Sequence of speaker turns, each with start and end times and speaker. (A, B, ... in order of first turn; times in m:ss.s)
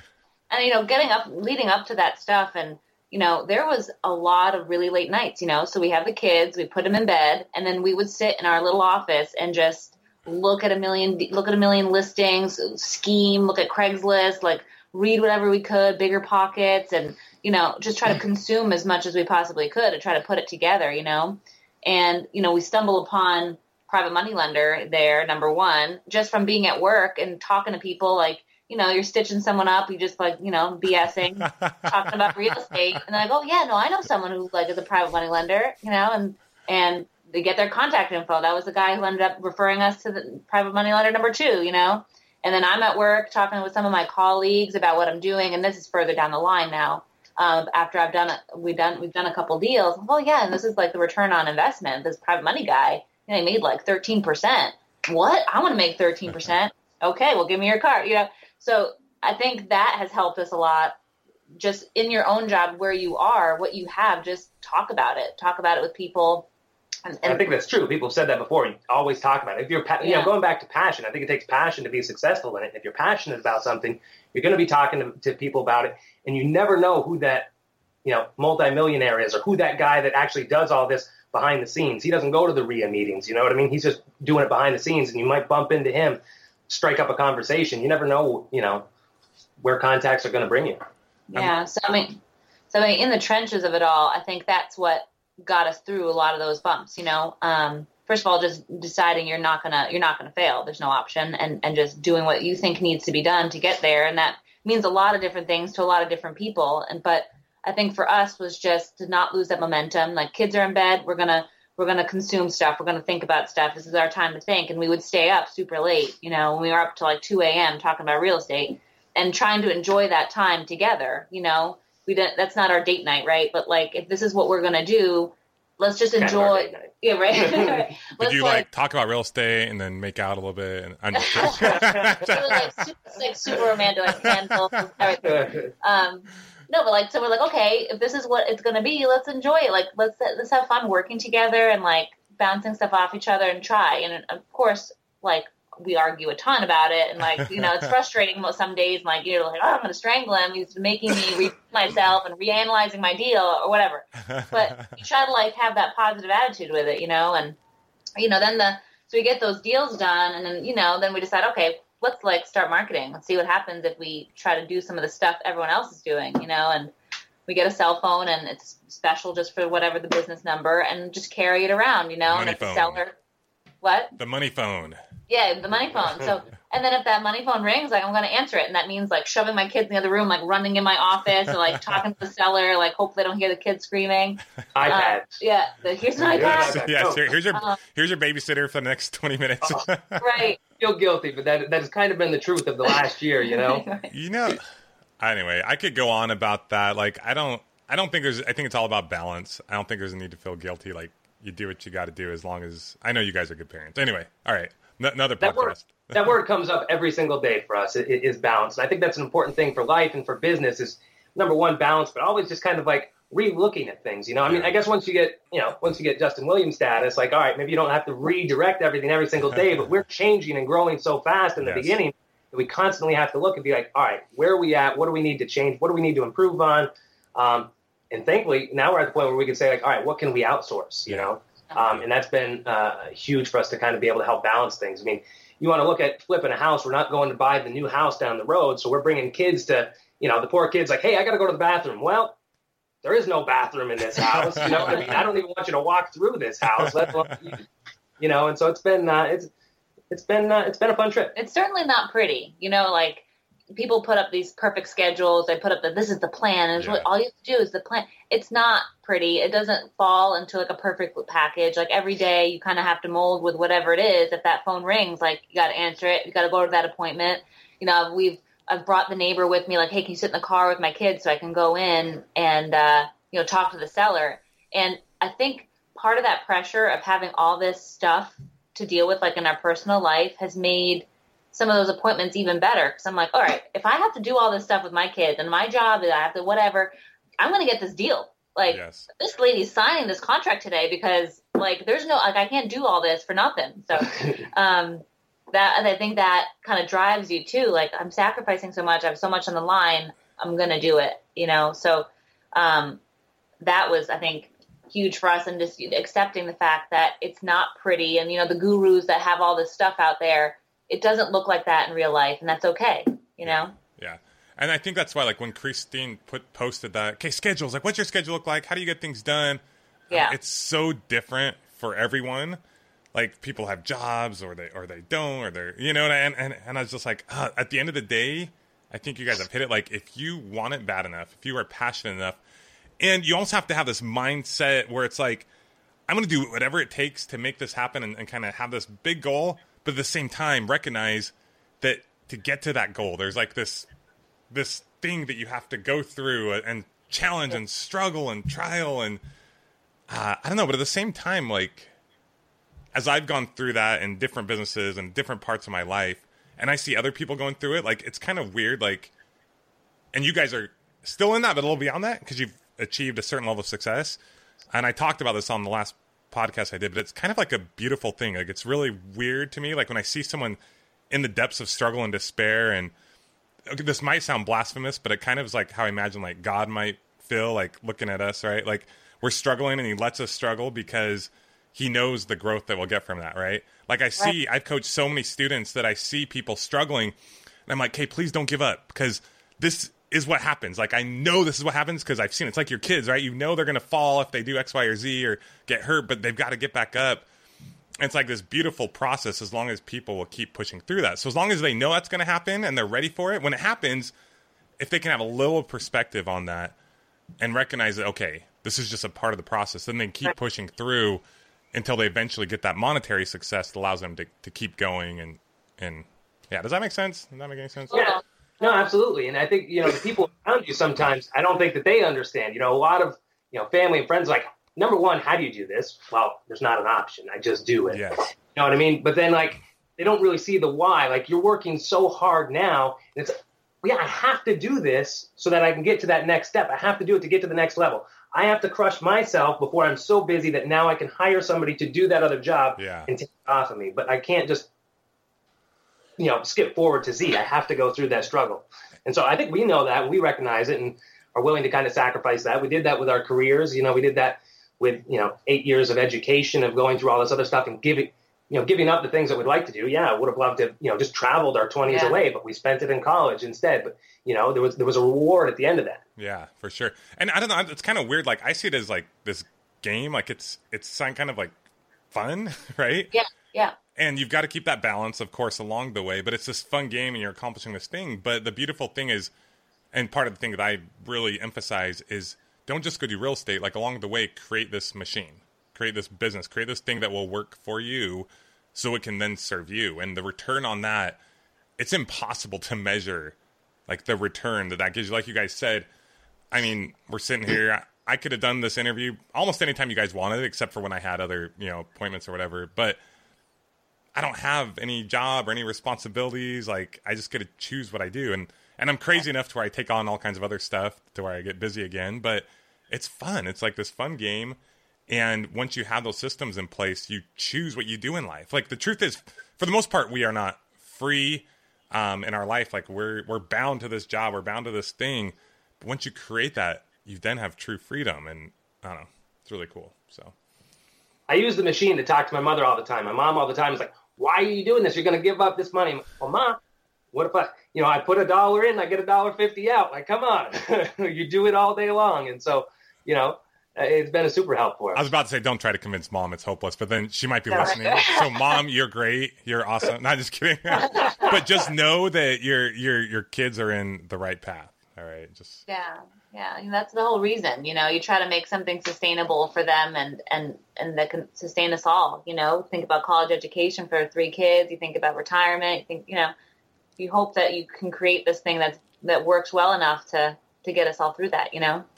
0:00.5-1:01.0 A
0:31.4-0:32.3 B
1:01.6-1:06.5 A
1:07.0-1:07.5 A
1:07.2-1:17.5 C
1:10.0-1:10.3 A
1:18.0-1:28.9 C
1:29.6-1:30.8 C
1:31.3-1:32.2 A
1:32.7-2:08.6 A
2:06.2-2:07.7 C
2:08.2-2:12.8 B
2:11.1-2:37.6 A
2:11.6-2:12.1 C
2:14.2-2:14.7 B
2:15.2-2:15.7 C
2:27.4-2:27.9 B
2:34.3-2:34.9 B
2:38.2-2:46.9 A
2:47.5-2:53.1 A
2:52.2-2:53.0 B
2:53.8-2:54.1 A
2:54.2-2:55.0 B
2:55.3-3:06.9 A
3:04.7-3:05.3 C
3:06.2-3:10.2 B
3:06.3-3:07.3 C
3:10.2-3:10.6 A
3:10.8-3:13.8 C
3:13.5-3:14.1 A
3:14.1-3:14.6 B
3:15.2-3:26.4 B
3:25.4-4:02.4 C
3:34.4-3:34.7 B
3:41.6-3:42.0 B
4:03.0-4:07.6 C
4:04.4-4:05.1 B
4:08.2-4:09.5 C
4:10.1-4:11.3 C
4:11.4-5:03.0 A
4:16.8-4:17.1 B
4:48.7-4:49.1 B
5:03.6-5:13.7 A
5:13.4-5:22.6 B
5:20.1-5:20.3 A
5:23.1-5:32.4 B
5:33.0-5:35.5 B
5:36.1-5:43.9 B
5:44.5-5:49.2 B
5:50.1-5:51.9 B
5:52.9-5:59.1 B
6:00.1-6:04.2 B
6:04.7-6:10.6 B
6:11.1-6:12.9 B
6:13.7-6:27.1 B
6:27.7-6:37.2 B
6:38.0-6:44.1 B
6:44.8-6:46.7 B
6:47.4-6:51.2 B
6:51.7-6:58.1 B
6:57.9-6:58.8 A
6:57.9-7:24.7 C
7:07.9-7:08.2 B
7:22.8-7:23.1 B
7:26.2-7:46.0 C
7:41.8-7:42.2 A
7:46.2-7:51.5 B
7:52.1-7:53.1 B
7:53.1-7:53.7 A
7:54.0-7:59.3 B
7:59.9-8:11.2 B
8:11.8-8:13.3 B
8:13.9-8:15.9 B
8:16.5-8:23.0 B
8:24.1-8:50.3 B
8:51.3-8:56.6 C
8:57.1-9:05.1 C
9:04.9-9:15.6 B
9:07.5-9:08.6 A
9:10.9-9:11.3 C
9:10.9-9:11.3 A
9:15.7-9:26.3 A
9:27.0-9:31.8 A